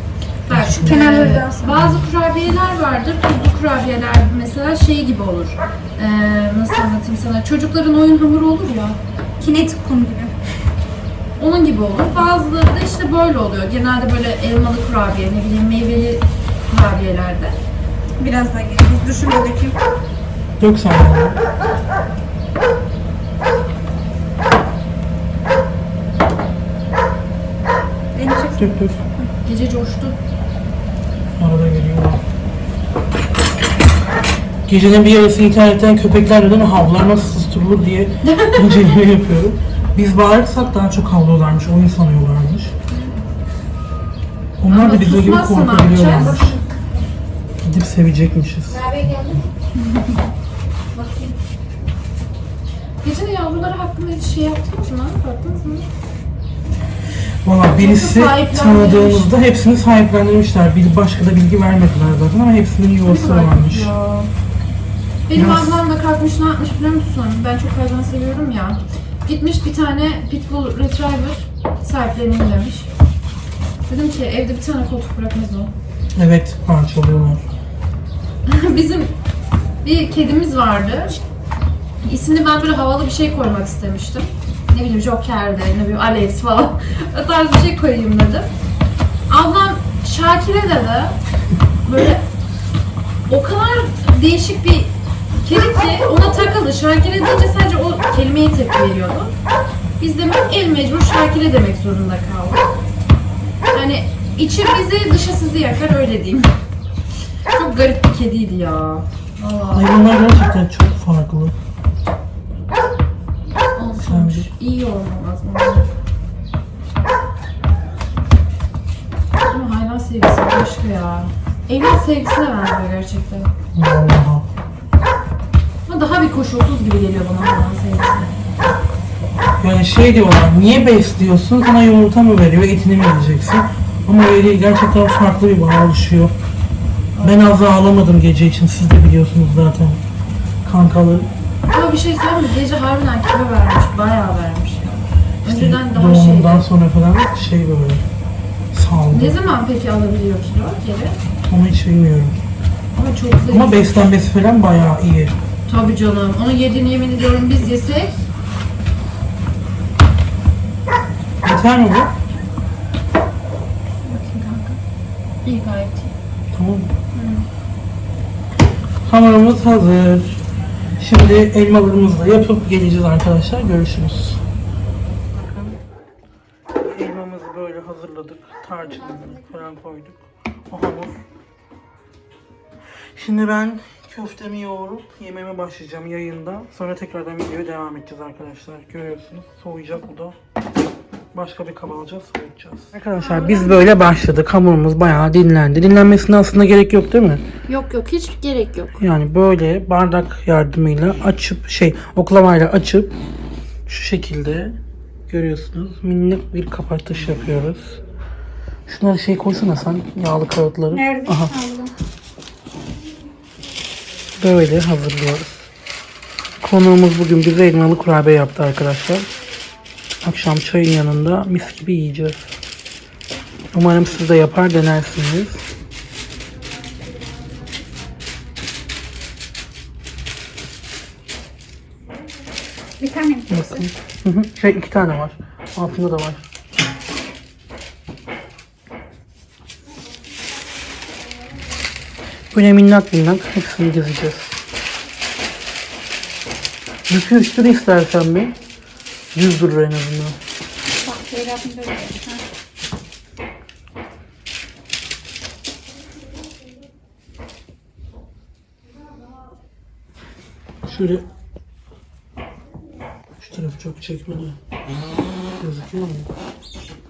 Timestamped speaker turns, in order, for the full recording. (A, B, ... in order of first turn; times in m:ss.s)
0:00.5-0:09.0 A
0:00.5-0:02.1 B
0:00.8-0:01.8 C
0:09.4-0:10.3 C
0:11.4-0:17.6 A
0:18.2-0:19.8 C
0:20.6-0:21.4 B
0:28.1-0:29.3 C
0:28.6-0:29.0 B
0:29.4-0:30.2 A
0:31.4-0:32.2 B
0:34.7-0:42.8 B
0:38.2-0:38.8 A
0:44.6-0:46.6 B
0:44.7-0:46.5 A
0:46.1-0:46.8 C
0:47.6-0:48.9 B
0:49.8-0:50.2 C
0:50.9-0:51.4 C
0:53.0-0:55.9 A
0:57.4-1:03.9 B
0:57.8-0:59.3 A
1:03.0-1:04.3 A
1:05.3-1:12.9 A
1:05.3-1:05.8 B
1:13.9-1:15.7 A
1:16.2-1:17.4 B
1:18.5-1:19.1 A
1:19.8-1:21.2 A
1:22.0-1:28.5 A
1:29.3-1:31.2 A
1:31.8-1:32.3 A
1:33.3-1:39.3 A
1:40.0-1:42.7 A
1:43.7-1:46.6 A
1:47.5-1:50.1 A
1:49.7-1:51.6 B
1:53.8-1:55.9 A
1:53.9-1:54.5 B
1:59.4-2:03.5 A
2:03.7-2:04.5 B
2:05.9-2:08.3 A
2:09.6-2:16.3 B
2:17.2-2:17.5 A
2:17.2-2:20.0 B
2:20.6-2:21.3 B
2:21.7-2:26.7 A
2:25.4-2:28.1 B
2:28.7-2:29.4 B
2:29.1-2:31.2 A
2:31.5-2:32.4 B
2:33.0-2:33.8 A
2:33.5-2:35.4 B
2:35.7-2:38.2 A
2:41.4-2:42.1 B
2:44.0-2:44.8 A
2:45.4-2:46.1 A
2:46.5-2:46.9 B
2:47.2-2:47.5 A
2:49.0-2:50.4 B
2:51.0-2:54.4 B
2:55.3-2:55.8 B
2:56.8-3:01.2 B
3:03.1-3:10.4 B
3:11.3-3:17.4 B
3:13.2-3:13.8 A
3:17.7-3:19.0 A
3:19.0-3:23.1 B
3:23.9-3:24.8 B
3:25.3-3:28.0 B
3:28.9-3:31.5 B
3:30.9-3:31.9 C
3:34.4-3:35.7 B
3:36.6-3:39.3 B
3:40.2-3:42.6 B
3:43.7-3:45.7 B
3:53.0-3:53.9 C
3:53.5-3:56.5 B
4:02.5-4:04.6 B
4:07.1-4:08.6 B
4:09.3-4:10.4 B
4:11.0-4:12.4 C
4:20.8-4:21.2 B
4:23.4-4:24.6 B
4:25.6-4:26.3 B